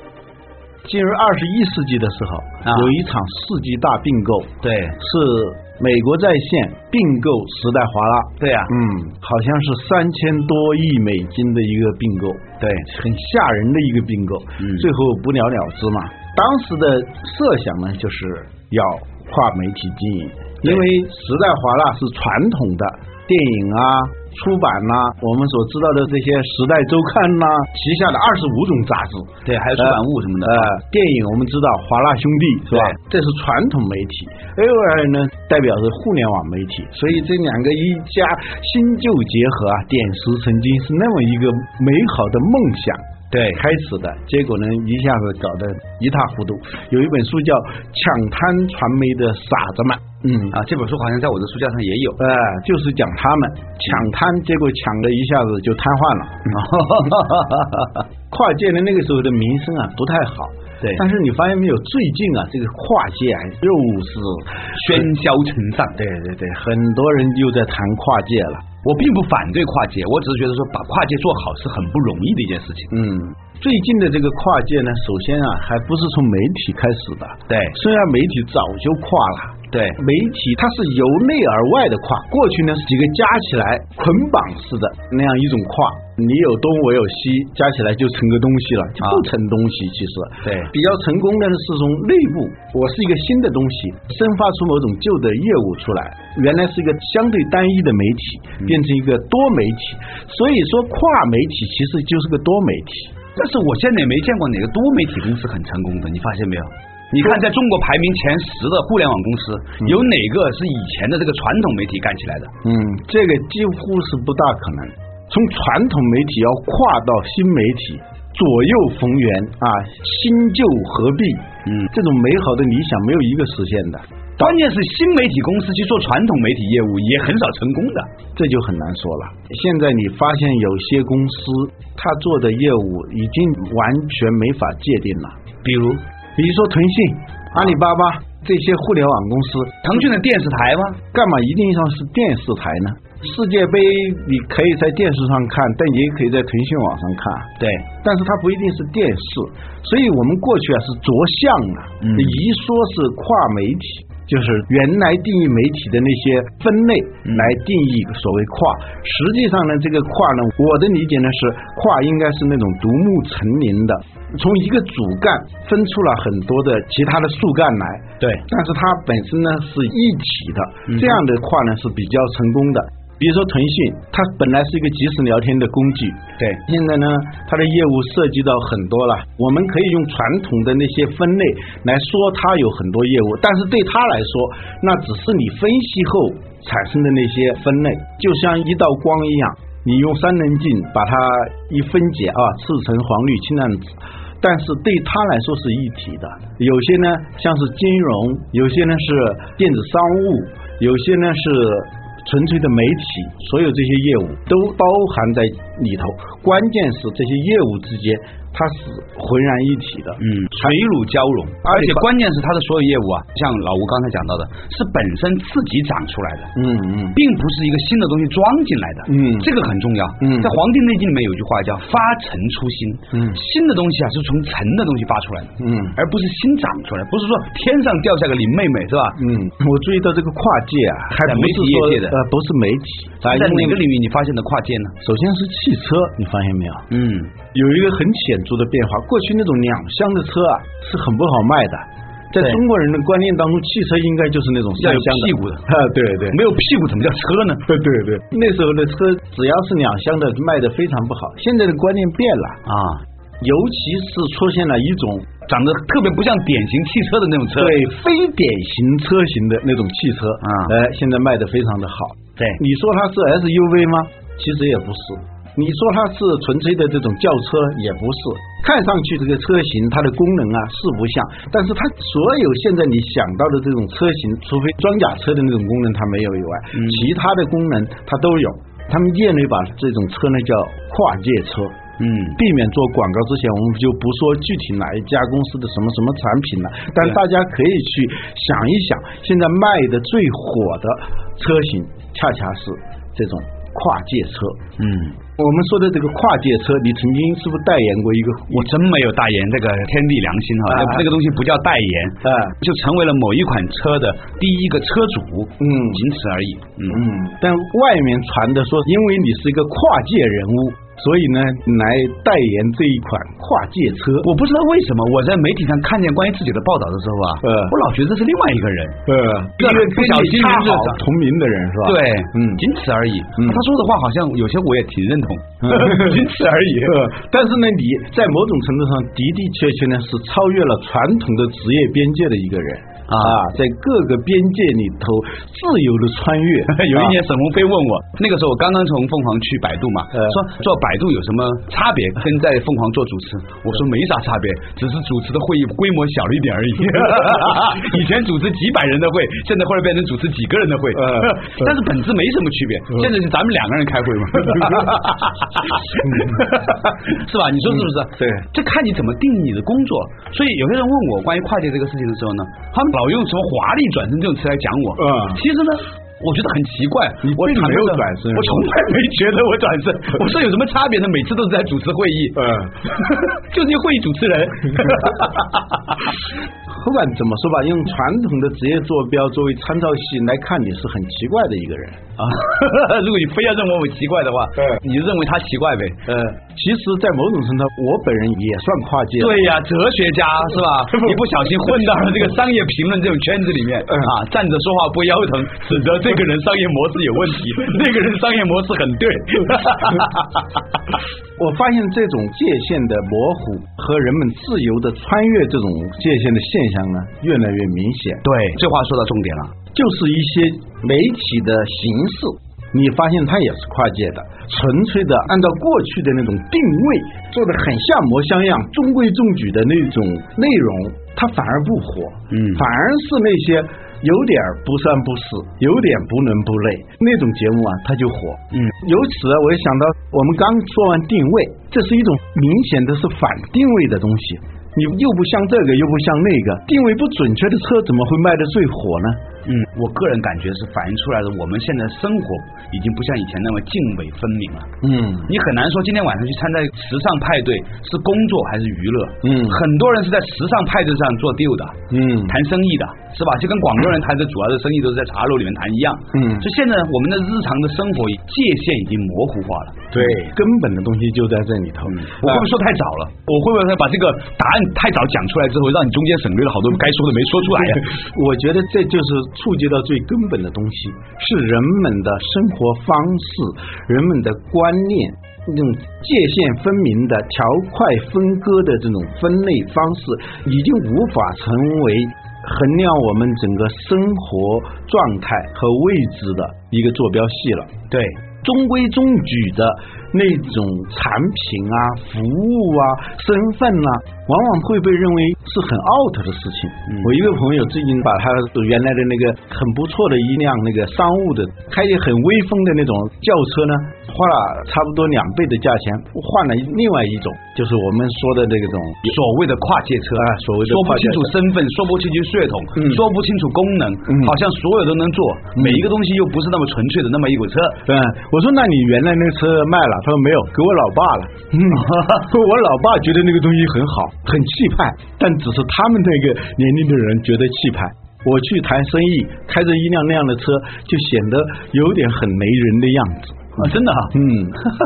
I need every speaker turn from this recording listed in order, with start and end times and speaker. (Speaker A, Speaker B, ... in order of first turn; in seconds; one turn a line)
Speaker A: 0.8-50.6
Speaker B: 2.6-3.0
Speaker B: 4.6-5.0
Speaker B: 8.4-8.7
Speaker B: 12.6-12.9
Speaker B: 14.6-14.9
Speaker B: 29.4-30.7
Speaker B: 32.7-33.0
Speaker B: 43.3-43.6
Speaker B: 50.5-52.2
Speaker A: 52.2-56.6
Speaker B: 56.5-58.0
Speaker A: 58.3-65.0
Speaker B: 64.7-66.0
Speaker A: 66.0-68.7
Speaker B: 68.8-72.9
Speaker A: 72.9-103.1
Speaker B: 77.5-77.8
Speaker B: 79.7-80.0
Speaker B: 90.4-90.7
Speaker B: 103.4-112.5
Speaker A: 112.6-124.6
Speaker B: 121.7-121.9
Speaker B: 124.4-128.1
Speaker A: 128.3-135.4
Speaker B: 135.6-136.0
Speaker A: 136.4-140.0
Speaker B: 139.8-141.0
Speaker A: 141.1-210.8
Speaker B: 147.6-147.8
Speaker B: 152.0-152.4
Speaker B: 157.3-157.6
Speaker B: 170.9-171.2
Speaker B: 210.2-216.6
Speaker A: 211.7-212.1
Speaker A: 216.6-217.2
Speaker B: 217.1-229.2
Speaker A: 219.1-219.5
Speaker A: 220.2-220.6
Speaker A: 223.1-223.4
Speaker A: 225.6-226.0
Speaker A: 229.2-233.8
Speaker B: 231.2-232.2
Speaker B: 233.2-235.0
Speaker A: 235.0-236.9
Speaker B: 236.9-237.3
Speaker A: 237.5-246.4
Speaker B: 244.8-245.7
Speaker B: 246.3-247.7
Speaker A: 247.7-252.6
Speaker B: 252.7-253.0
Speaker A: 253.4-255.3
Speaker B: 255.5-257.8
Speaker A: 257.6-281.8
Speaker B: 260.4-260.7
Speaker B: 276.8-277.1
Speaker B: 282.0-282.4
Speaker A: 282.4-294.6
Speaker B: 294.8-295.2
Speaker A: 295.4-298.7
Speaker B: 298.5-307.0
Speaker A: 300.7-301.1
Speaker A: 302.2-302.6
Speaker A: 305.6-306.0
Speaker A: 306.9-314.3
Speaker B: 314.2-319.0
Speaker A: 317.4-317.8
Speaker A: 319.1-322.6
Speaker B: 319.6-321.0
Speaker B: 321.8-327.1
Speaker A: 325.6-326.2
Speaker A: 326.8-337.2
Speaker B: 333.1-333.4
Speaker B: 336.7-376.0
Speaker A: 351.0-351.7
Speaker A: 356.0-356.5
Speaker A: 358.2-358.4
Speaker A: 365.0-365.4
Speaker A: 367.2-368.7
Speaker A: 372.4-372.7
Speaker A: 376.7-382.0
Speaker B: 382.2-386.1
Speaker A: 386.1-389.4
Speaker B: 389.2-400.5
Speaker A: 401.4-408.2
Speaker B: 408.2-409.6
Speaker A: 409.7-439.2
Speaker B: 422.3-422.6
Speaker B: 439.4-444.7
Speaker A: 444.8-445.3
Speaker B: 445.3-460.2
Speaker A: 449.2-449.6
Speaker A: 451.9-452.4
Speaker A: 456.1-456.5
Speaker A: 459.9-462.5
Speaker B: 461.9-467.9
Speaker A: 467.6-487.8
Speaker B: 487.9-488.2
Speaker A: 488.4-509.2
Speaker B: 509.1-517.8
Speaker A: 510.2-511.3
Speaker A: 512.8-513.0
Speaker A: 514.1-514.4
Speaker A: 515.6-515.8
Speaker A: 517.9-534.7
Speaker B: 521.7-522.2
Speaker B: 533.6-534.2